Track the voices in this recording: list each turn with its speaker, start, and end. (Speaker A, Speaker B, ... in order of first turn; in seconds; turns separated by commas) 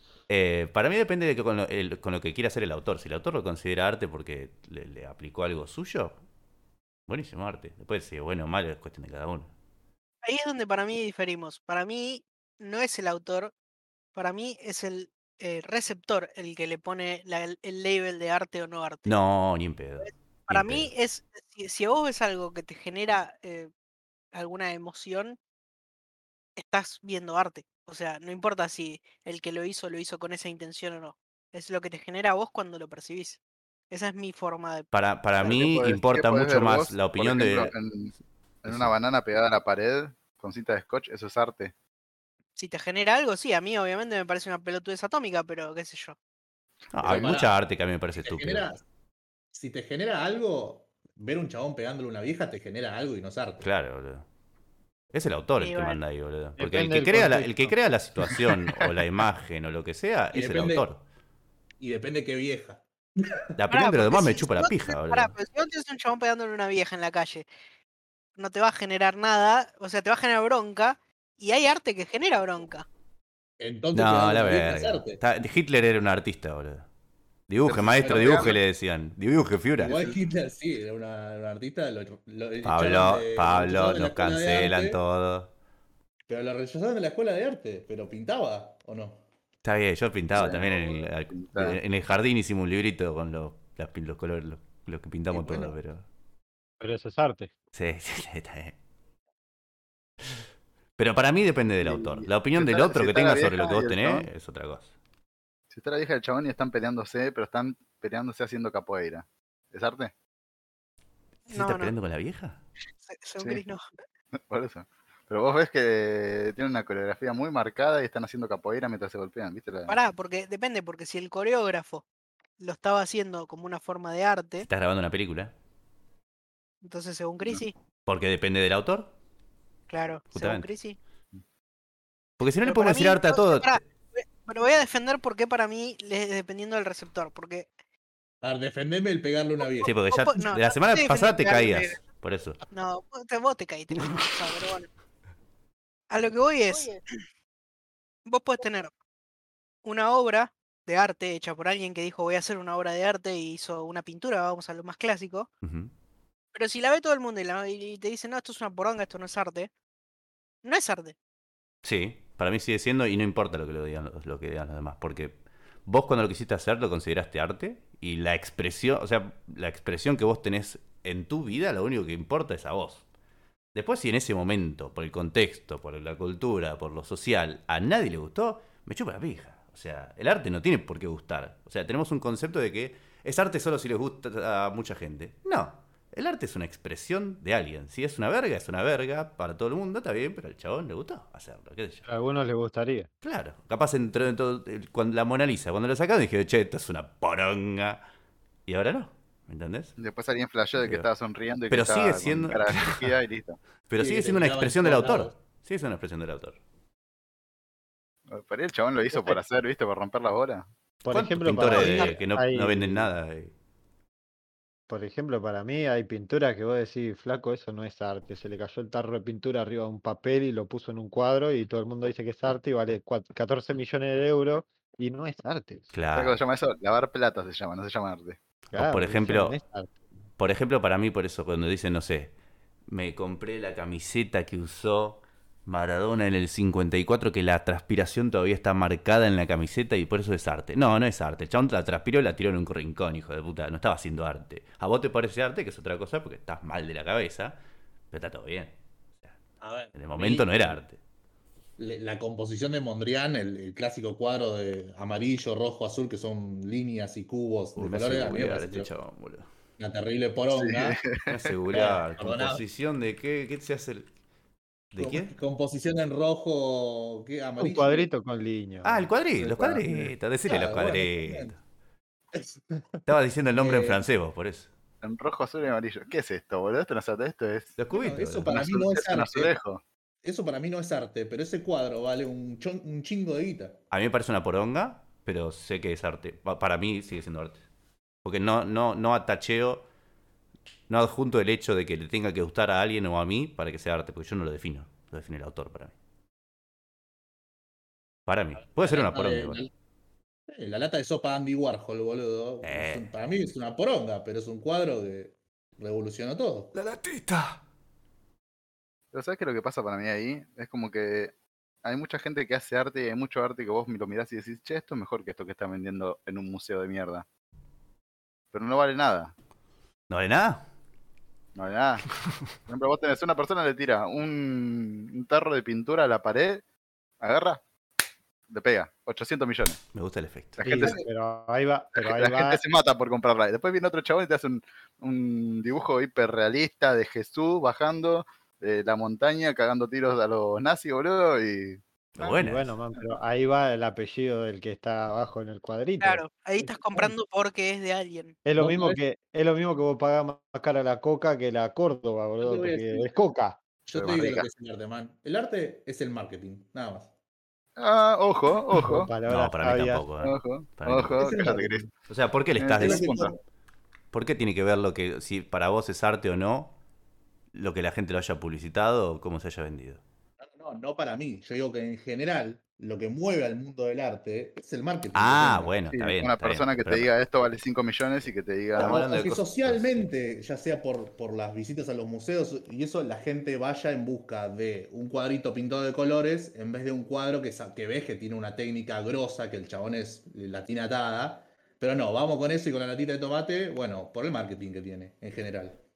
Speaker A: 0.3-6.2, Speaker A: 7.1-9.5, Speaker B: 10.2-13.5, Speaker B: 14.1-19.1, Speaker A: 19.1-20.9, Speaker B: 20.0-23.7, Speaker B: 24.3-25.4, Speaker B: 26.6-34.9, Speaker A: 34.9-37.7, Speaker C: 35.4-38.1, Speaker C: 38.6-41.7, Speaker A: 38.7-38.9, Speaker B: 42.6-46.2, Speaker A: 46.9-48.7, Speaker D: 47.0-47.5, Speaker C: 47.0-47.4, Speaker D: 48.2-48.8, Speaker D: 49.5-53.7, Speaker A: 53.6-54.3, Speaker A: 55.1-61.0, Speaker B: 55.6-56.0, Speaker E: 56.6-57.8, Speaker D: 60.3-60.8, Speaker D: 61.8-63.5, Speaker A: 63.6-65.3, Speaker B: 63.7-67.5, Speaker B: 68.4-72.8, Speaker D: 73.6-75.2, Speaker A: 73.9-76.8, Speaker A: 77.5-80.0, Speaker C: 77.7-78.6, Speaker D: 78.1-78.6, Speaker D: 79.8-85.0, Speaker C: 79.8-80.2, Speaker A: 82.6-85.5, Speaker D: 86.3-89.2, Speaker A: 89.6-96.0, Speaker C: 90.3-91.8, Speaker D: 95.3-95.7, Speaker E: 96.8-97.5, Speaker A: 97.7-98.8, Speaker A: 101.0-104.9, Speaker C: 101.8-104.3, Speaker C: 105.7-110.1, Speaker B: 111.5-111.9, Speaker A: 111.5-112.6, Speaker B: 113.0-113.8, Speaker C: 114.3-120.0, Speaker B: 119.9-122.0, Speaker B: 122.6-124.7, Speaker A: 124.6-125.5, Speaker B: 126.8-127.7, Speaker A: 128.1-129.1, Speaker B: 129.9-131.0, Speaker A: 130.3-130.7, Speaker A: 132.4-133.8, Speaker B: 132.6-137.7, Speaker D: 138.4-139.9, Speaker B: 139.7-142.0, Speaker A: 139.9-142.6, Speaker B: 142.7-144.9, Speaker A: 143.9-144.6, Speaker B: 146.1-147.0, Speaker B: 148.3-148.9, Speaker B: 149.8-155.5, Speaker A: 155.6-155.9, Speaker B: 156.5-159.7, Speaker B: 160.6-161.2, Speaker A: 161.8-173.0, Speaker A: 173.7-192.1, Speaker E: 192.1-193.1, Speaker A: 193.2-198.0, Speaker A: 198.7-200.0, Speaker C: 200.0-203.6, Speaker A: 200.8-201.1, Speaker A: 201.7-203.2, Speaker A: 203.9-206.6, Speaker D: 204.0-205.3, Speaker C: 208.3-210.7, Speaker E: 211.1-213.1, Speaker A: 211.1-213.5, Speaker B: 211.7-212.2, Speaker E: 214.9-225.9, Speaker A: 225.9-226.4, Speaker C: 226.2-228.4, Speaker E: 228.7-230.1, Speaker A: 228.7-229.6, Speaker A: 230.4-232.3, Speaker A: 232.9-247.6, Speaker A: 248.1-249.3, Speaker D: 249.6-250.8, Speaker A: 249.9-251.0, Speaker D: 251.8-258.9, Speaker A: 257.8-259.5, Speaker D: 259.8-261.0, Speaker C: 260.6-261.5, Speaker A: 261.2-264.1, Speaker D: 261.7-262.6, Speaker A: 264.9-265.3, Speaker D: 265.0-268.1, Speaker E: 267.6-269.1, Speaker A: 268.8-271.6, Speaker D: 269.4-269.8, Speaker D: 270.5-271.6, Speaker D: 272.3-272.6, Speaker A: 273.1-274.7, Speaker D: 273.6-274.0, Speaker C: 275.0-277.8, Speaker A: 277.8-278.6, Speaker D: 277.9-279.5, Speaker C: 278.5-279.8, Speaker D: 280.2-283.8, Speaker A: 283.9-287.6, Speaker A: 288.2-289.9, Speaker A: 290.9-295.9, Speaker A: 298.3-299.6, Speaker D: 298.8-299.7, Speaker D: 300.5-306.8, Speaker A: 302.6-303.1, Speaker A: 306.7-307.6, Speaker C: 309.1-311.3, Speaker C: 311.8-317.2, Speaker C: 318.5-319.3, Speaker A: 320.1-320.6, Speaker C: 321.6-322.1, Speaker C: 322.6-326.6, Speaker C: 327.2-327.6, Speaker C: 328.5-329.8, Speaker A: 329.9-330.6, Speaker C: 330.6-331.0, Speaker E: 330.6-332.6, Speaker C: 332.0-341.8, Speaker A: 342.1-342.7, Speaker E: 342.2-347.1, Speaker B: 346.0-348.4, Speaker E: 348.4-353.6, Speaker D: 348.6-349.0, Speaker D: 352.4-353.1, Speaker D: 353.9-357.1, Speaker C: 353.9-354.5, Speaker C: 357.8-359.1, Speaker E: 358.7-360.1, Speaker A: 359.3-361.3, Speaker C: 360.2-361.9, Speaker E: 361.2-361.8, Speaker A: 362.1-363.1, Speaker C: 362.6-363.4, Speaker D: 362.8-363.3, Speaker A: 364.1-366.7, Speaker A: 367.5-370.0, Speaker D: 370.4-375.8, Speaker A: 375.1-377.1, Speaker C: 375.9-379.1, Speaker D: 378.8-395.8, Speaker A: 378.8-380.1